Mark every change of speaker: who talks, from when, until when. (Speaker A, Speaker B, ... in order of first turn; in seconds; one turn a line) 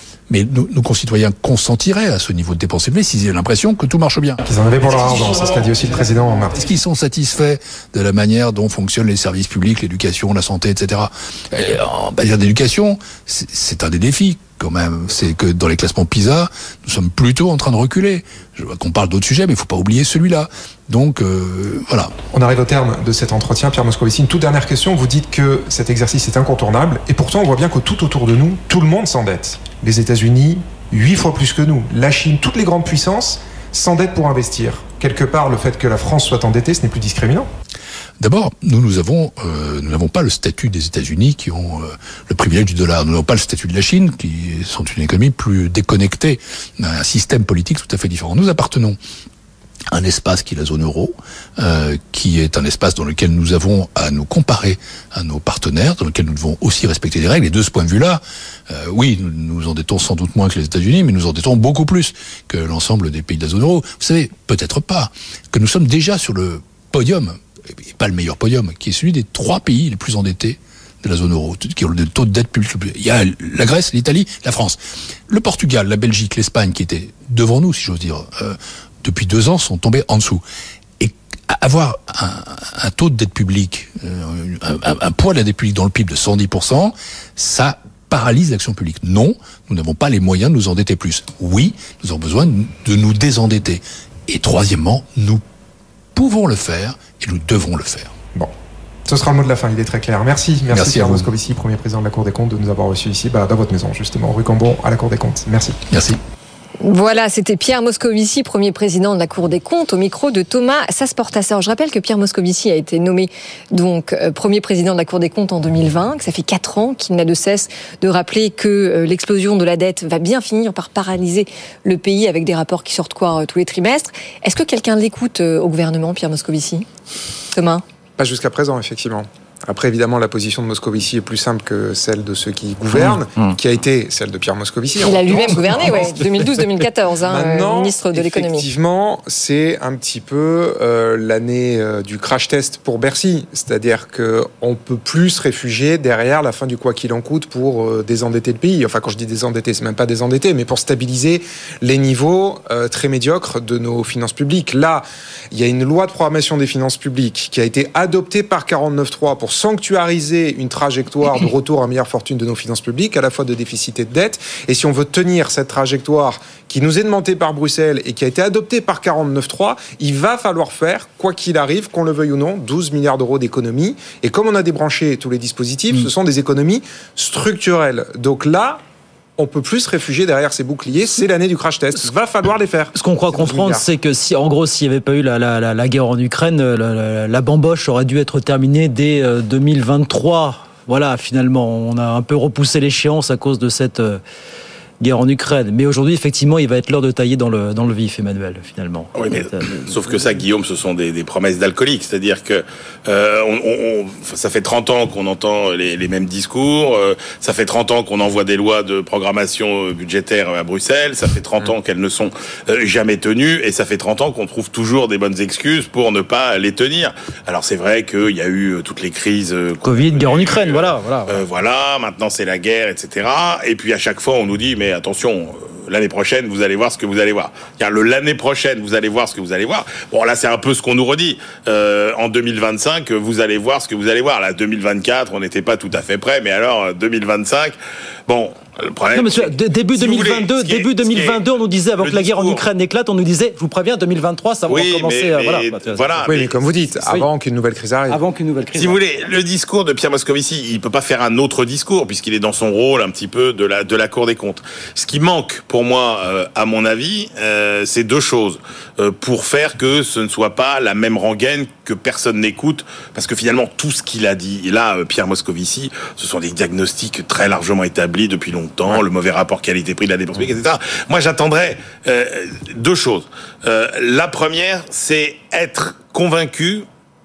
Speaker A: 0.3-4.4
Speaker B: 4.4-6.6
Speaker A: 6.6-22.1
Speaker B: 22.3-37.5
Speaker A: 38.2-49.0
Speaker A: 49.9-80.4
Speaker A: 81.0-95.4
Speaker A: 96.2-98.1
Speaker B: 99.1-105.8
Speaker A: 100.7-101.3
Speaker A: 105.9-106.2
Speaker C: 106.8-126.8
Speaker C: 127.5-127.8
Speaker B: 128.2-136.6
Speaker D: 132.9-133.5
Speaker C: 135.0-138.7
Speaker B: 137.2-178.8
Speaker B: 179.4-183.8
Speaker D: 182.9-194.2
Speaker D: 195.0-199.8
Speaker E: 199.1-241.5
Speaker D: 219.8-221.4
Speaker D: 239.1-246.3
Speaker E: 242.0-242.6
Speaker E: 244.7-246.9
Speaker B: 246.2-248.2
Speaker D: 248.1-249.0
Speaker E: 248.7-276.9